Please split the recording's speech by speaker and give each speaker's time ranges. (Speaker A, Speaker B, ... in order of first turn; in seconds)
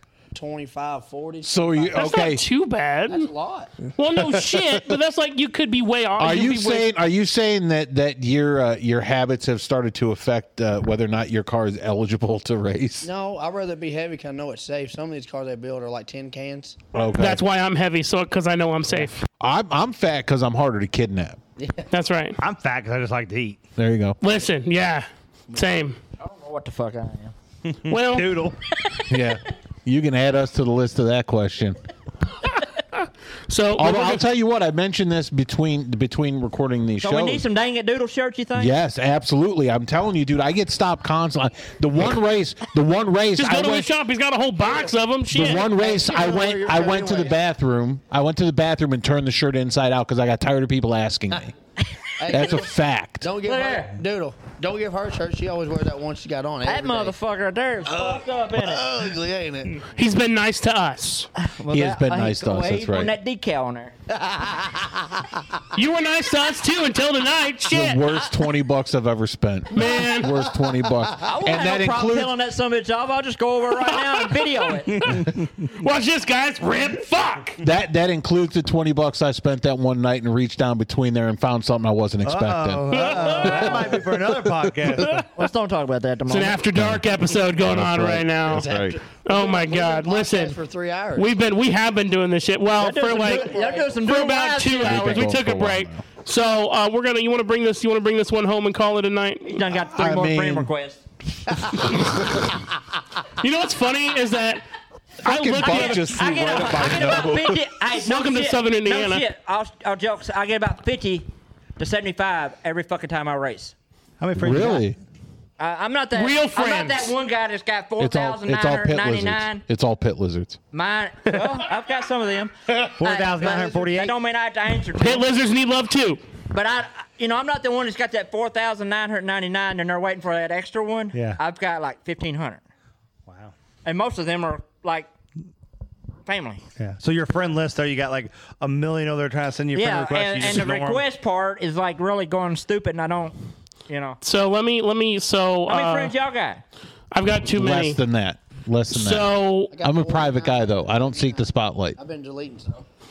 Speaker A: 0.3-2.0, 3.1-3.9, 13.0-16.8, 21.6-21.9, 44.6-44.9, 45.5-47.4, 52.2-57.1, 57.9-59.9, 64.1-65.4, 83.1-84.0, 88.5-91.3, 93.0-94.0, 149.7-151.4, 151.9-152.8
Speaker B: 1.4-2.4, 4.1-4.8, 6.2-13.1, 16.9-17.4, 19.4-21.4, 23.8-24.2, 29.1-31.8, 33.8-37.5, 38.5-43.9, 45.3-51.5, 52.3-53.3, 61.7-63.1, 67.7-72.4, 77.6-85.1, 86.7-89.0, 94.8-96.0, 99.9-100.7, 101.4-102.5, 105.2-107.7, 114.4-115.0, 118.0-120.6, 147.5-152.0
Speaker C: 1.9-3.3, 4.0-6.9, 17.1-19.2, 21.9-22.4, 24.2-26.0, 27.9-28.3, 33.0-34.2, 43.4-45.7, 59.9-61.3, 65.7-68.0, 69.7-70.4, 73.9-74.3, 75.8-77.6, 86.3-88.7, 89.2-90.6, 91.2-99.6, 103.3-104.6, 105.2-106.1, 107.9-109.2, 116.1-117.1, 124.9-126.2, 144.2-146.1, 147.1-148.0, 148.9-149.7
Speaker D: 22.4-23.6, 27.7-28.6, 74.9-75.7, 82.2-85.2, 114.2-114.8, 122.9-124.1, 131.1-131.4, 133.3-133.5, 136.8-141.0
Speaker E: 26.2-27.3, 37.0-38.7, 53.4-53.9, 56.6-58.9, 61.4-63.9, 71.2-75.0, 83.2-83.7, 85.3-86.6, 92.8-95.3, 99.5-101.0, 105.6-113.7, 115.6-119.6, 120.7-125.3, 126.5-132.6, 133.8-135.1, 136.3-136.6, 139.7-143.3, 143.9-144.2, 145.7-146.6